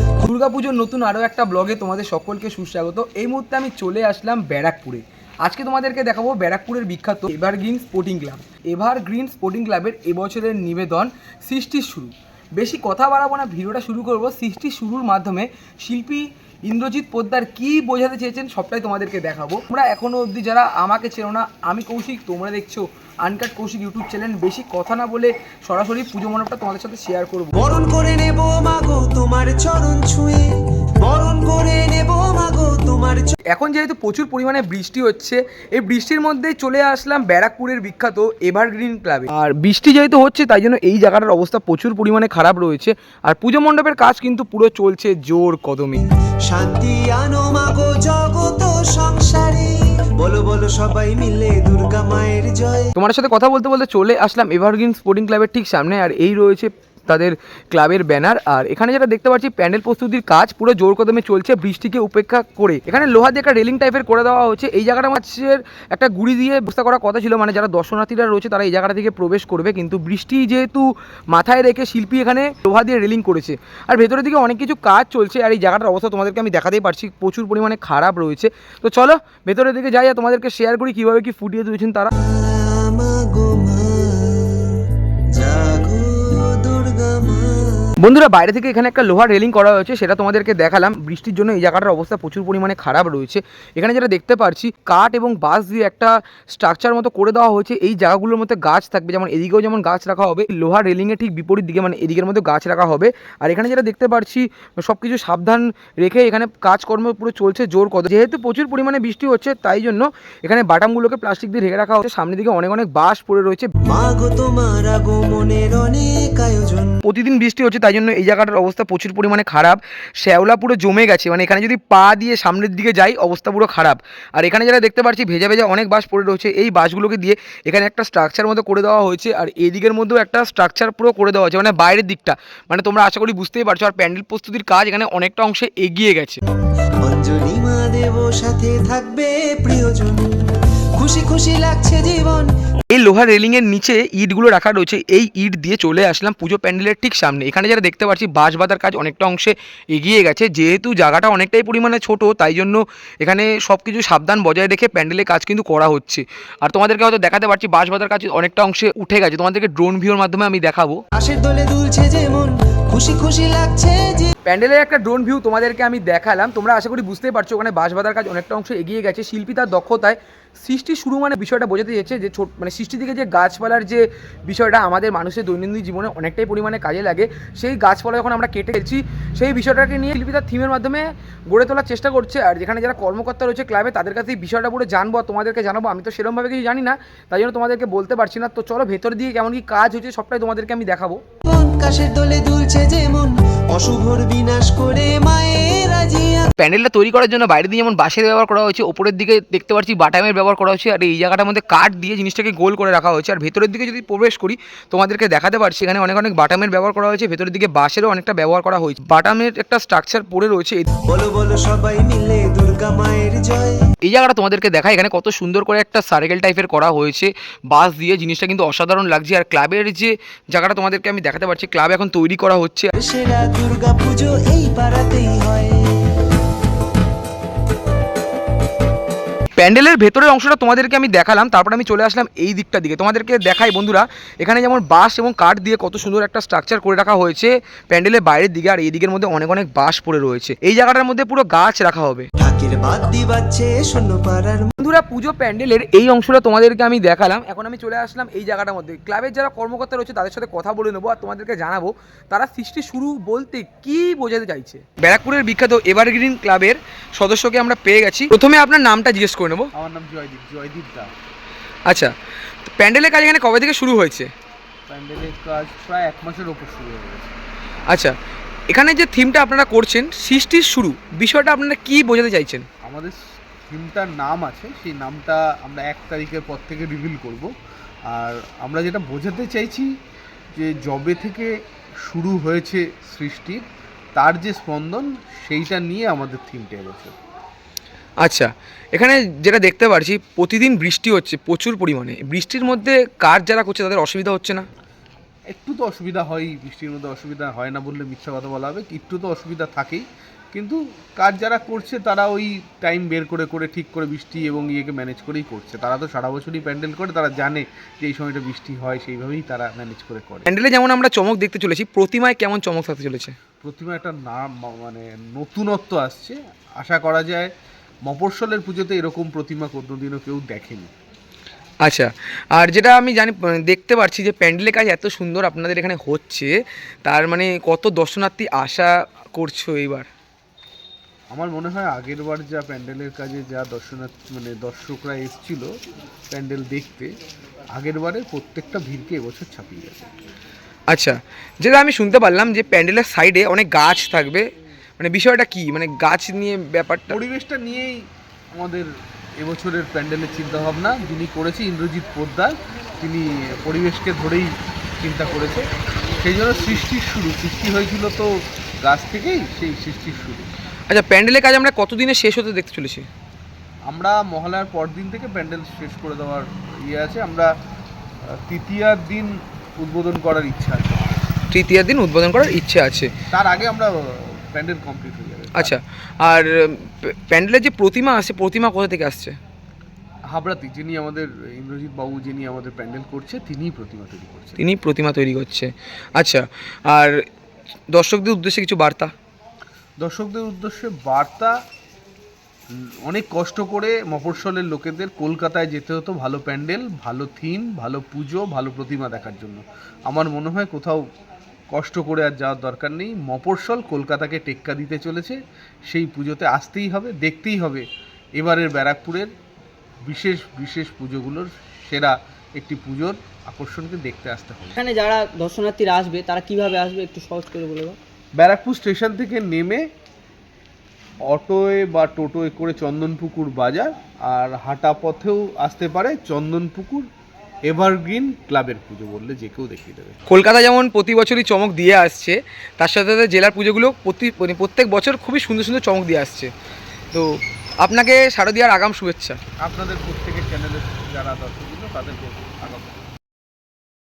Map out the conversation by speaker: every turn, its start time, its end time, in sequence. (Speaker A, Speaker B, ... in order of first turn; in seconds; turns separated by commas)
Speaker A: 0.2-27.6, Speaker B: 27.6-33.4, Speaker A: 33.5-46.0, Speaker B: 46.5-52.9, Speaker A: 53.0-82.1, Speaker B: 82.2-88.0, Speaker A: 88.0-113.7, Speaker B: 113.8-117.0, Speaker A: 117.0-136.4, Speaker B: 137.0-142.5, Speaker A: 142.9-161.0, Speaker B: 161.2-164.3, Speaker A: 164.5-191.2, Speaker B: 191.4-196.5, Speaker A: 196.6-210.9, Speaker B: 211.1-213.8, Speaker A: 214.0-222.9, Speaker B: 223.0-226.2, Speaker A: 229.6-242.3, Speaker B: 242.4-244.7, Speaker A: 244.8-259.7, Speaker C: 259.7-261.1, Speaker A: 261.9-262.1, Speaker A: 262.6-264.3, Speaker C: 264.9-267.4, Speaker A: 267.9-268.1, Speaker A: 268.7-272.7, Speaker C: 272.8-277.5, Speaker C: 278.1-279.9, Speaker C: 280.5-281.5, Speaker C: 282.1-283.6, Speaker C: 284.2-287.1, Speaker A: 288.2-294.7, Speaker C: 295.5-310.5, Speaker A: 310.5-313.4, Speaker C: 313.6-317.5, Speaker C: 318.1-320.9, Speaker A: 321.8-326.5, Speaker A: 327.1-330.1, Speaker C: 331.3-335.7, Speaker C: 336.3-337.1, Speaker C: 337.7-340.1, Speaker A: 340.9-344.4, Speaker A: 345.0-347.2, Speaker C: 347.1-348.0, Speaker C: 348.5-348.9, Speaker C: 349.4-355.7, Speaker C: 356.2-358.3, Speaker C: 358.8-360.5, Speaker A: 360.9-363.1, Speaker C: 363.9-367.5, Speaker C: 368.3-371.3, Speaker A: 371.5-373.1, Speaker C: 373.3-375.8, Speaker A: 375.6-379.4, Speaker C: 380.3-384.6, Speaker A: 384.6-387.2, Speaker A: 387.9-389.1, Speaker C: 390.0-391.6, Speaker C: 392.7-401.0, Speaker C: 401.7-407.9, Speaker C: 408.4-409.3, Speaker C: 410.1-414.8, Speaker D: 414.8-418.0, Speaker C: 418.4-419.9, Speaker C: 421.3-427.1, Speaker C: 427.7-430.2, Speaker A: 430.3-436.5, Speaker A: 437.8-439.4, Speaker C: 439.6-443.1